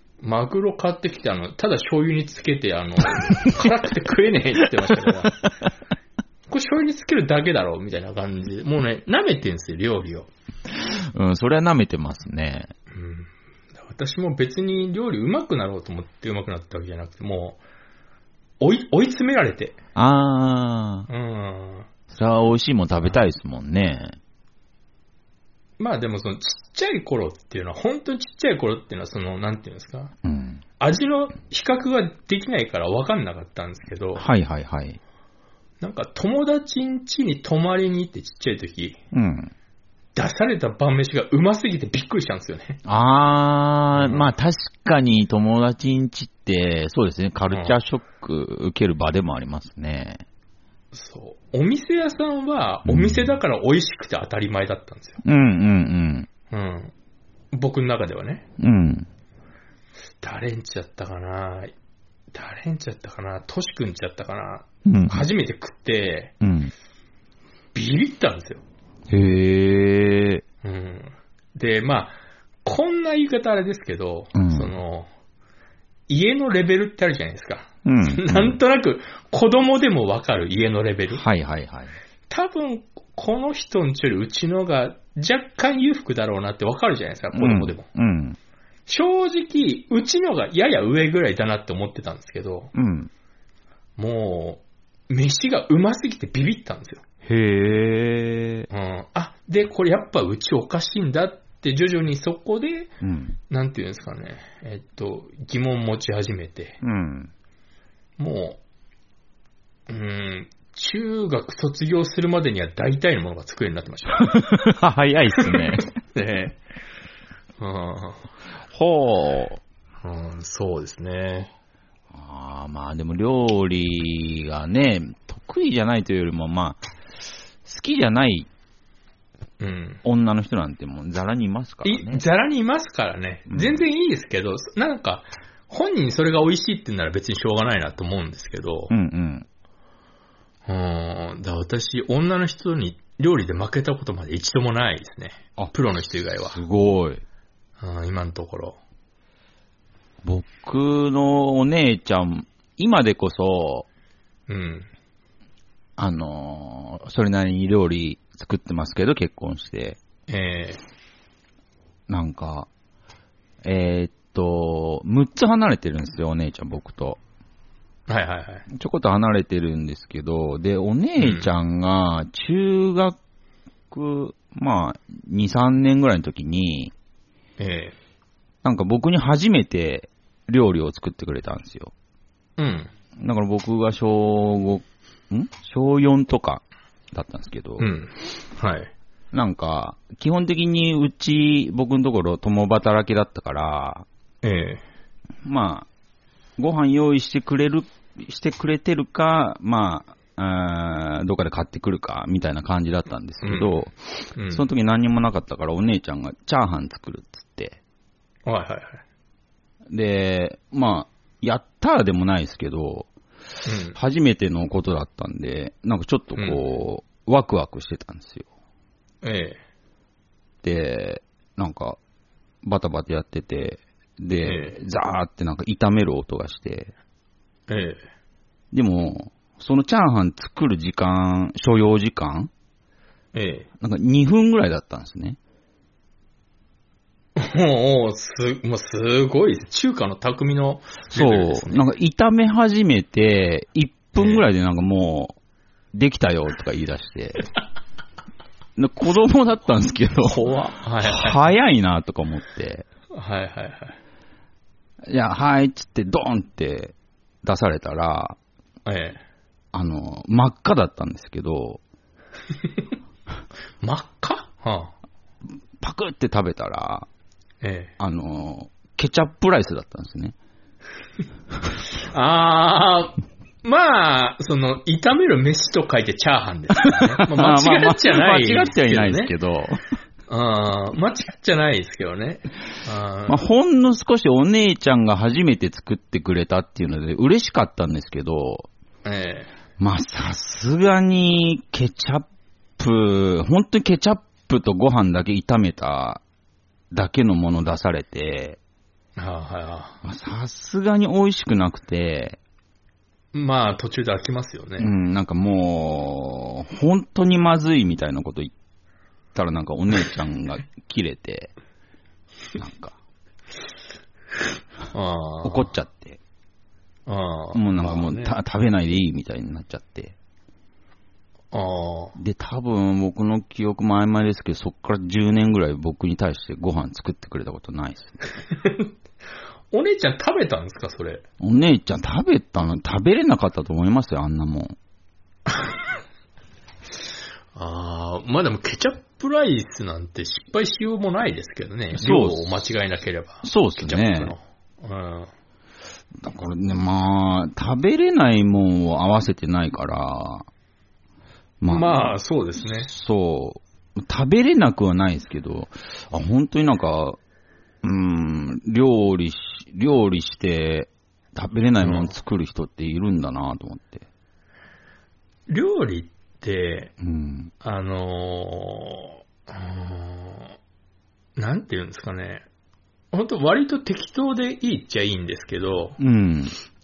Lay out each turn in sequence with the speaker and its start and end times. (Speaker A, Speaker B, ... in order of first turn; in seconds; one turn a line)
Speaker A: 0.2-5.4
Speaker A: 6.5-10.3
Speaker B: 10.7-12.7
Speaker A: 12.9-17.6
Speaker A: 18.6-19.8
Speaker B: 19.9-21.1
Speaker A: 21.1-21.9
Speaker B: 22.1-24.2
Speaker A: 25.8-30.1
Speaker B: 30.2-30.6
Speaker A: 30.8-34.3
Speaker B: 34.2-35.0
Speaker A: 35.8-39.0
Speaker B: 39.1-39.5
Speaker A: 40.1-42.8
Speaker B: 42.9-50.2
Speaker A: 43.9-44.3
Speaker A: 47.5-47.8
Speaker A: 50.9-55.2
Speaker B: 52.9-53.3
Speaker B: 55.2-56.3
Speaker A: 56.5-56.9
Speaker A: 57.5-58.5
Speaker B: 58.6-59.1
Speaker A: 60.2-61.7
Speaker A: 62.3-66.3
Speaker B: 64.8-65.3
Speaker B: 66.4-66.7
Speaker A: 67.8-68.6
Speaker B: 69.1-70.4
Speaker A: 70.6-75.1
Speaker B: 74.3-74.8
Speaker A: 76.1-81.2
Speaker B: 77.8-78.6
Speaker B: 81.1-82.0
Speaker A: 82.3-87.8
Speaker B: 87.3-88.4
Speaker A: 88.9-92.7
Speaker B: 92.8-93.1
Speaker A: 94.0-97.0
Speaker B: 97.2-98.7
Speaker A: 98.7-102.9
Speaker B: 103.0-103.4
Speaker A: 103.5-106.8
Speaker B: 106.8-107.3
Speaker A: 108.2-108.6
Speaker A: 109.9-114.5
Speaker B: 114.2-115.9
Speaker A: 115.4-116.6
Speaker A: 117.6-118.2
Speaker B: 118.7-119.6
Speaker A: 120.0-121.5
Speaker B: 122.1-126.9
Speaker B: 127.6-128.5
Speaker A: 129.6-130.0
Speaker B: 130.0-132.2
Speaker A: 131.8-138.9
Speaker B: 133.5-133.8
Speaker B: 138.9-139.5
Speaker A: 140.7-146.6
Speaker B: 146.4-147.2
Speaker A: 147.8-148.8
Speaker B: 150.2-153.9
Speaker A: 154.5-154.9
Speaker B: 156.0-160.0
Speaker A: 160.3-160.8
Speaker B: 162.1-162.7
Speaker B: 163.6-167.2
Speaker A: 168.1-168.7
Speaker B: 168.7-173.2
Speaker A: 171.2-171.5
Speaker B: 173.9-176.9
Speaker A: 177.6-177.9
Speaker B: 178.6-181.9
Speaker A: 182.6-182.9
Speaker B: 183.2-187.9
Speaker A: 187.8-188.9
Speaker B: 189.3-194.1
Speaker A: 194.4-194.8
Speaker B: 195.4-195.9
Speaker B: 196.6-207.8
Speaker A: 203.4-203.8
Speaker A: 204.4-204.7
Speaker A: 208.5-209.0
Speaker B: 209.9-213.1
Speaker A: 213.6-214.0
Speaker B: 213.9-218.5
Speaker A: 216.3-216.7
Speaker A: 219.2-219.6
Speaker B: 220.6-222.0
Speaker B: 222.6-226.9
Speaker A: 224.4-224.8
Speaker A: 227.7-228.1
Speaker B: 228.7-232.5
Speaker A: 233.3-233.7
Speaker B: 233.8-235.4
Speaker A: 237.4-241.8
Speaker B: 241.1-245.4
Speaker A: 244.2-244.4
Speaker B: 245.9-247.4
Speaker B: 248.8-250.5
Speaker A: 250.2-251.4
Speaker B: 251.0-252.8
Speaker A: 253.2-254.0
Speaker B: 255.1-258.4
Speaker A: 258.9-259.2
Speaker B: 259.7-261.8
Speaker A: 263.8-264.9
Speaker B: 265.8-267.1
Speaker A: 267.6-267.9
Speaker B: 268.0-270.4
Speaker A: 272.0-279.3
Speaker B: 277.2-279.8
Speaker A: 280.3-283.4
Speaker B: 283.3-288.7
Speaker A: 289.1-289.5
Speaker B: 289.8-292.3
Speaker B: 292.8-296.2
Speaker B: 296.9-298.6
Speaker A: 299.2-300.0
Speaker B: 300.0-302.4
Speaker A: 303.3-304.9
Speaker B: 304.8-308.5
Speaker B: 309.4-311.5
Speaker B: 312.6-313.0
Speaker A: 314.9-315.7
Speaker B: 315.4-316.2
Speaker A: 317.1-318.3
Speaker B: 317.5-320.1
Speaker A: 321.5-322.1
Speaker B: 322.2-328.2
Speaker A: 328.5-328.9
Speaker A: 329.7-331.2
Speaker B: 331.4-334.8
Speaker A: 335.5-335.8
Speaker A: 337.6-345.3
Speaker B: 341.9-342.5
Speaker B: 343.4-344.3
Speaker B: 346.2-350.5
Speaker B: 351.6-357.2
Speaker A: 351.7-352.9
Speaker B: 357.8-364.1
Speaker A: 361.8-362.1
Speaker A: 365.5-366.9
Speaker B: 367.0-367.5
Speaker A: 367.6-370.6
Speaker A: 371.4-372.4
Speaker A: 373.1-376.0
Speaker B: 376.0-376.6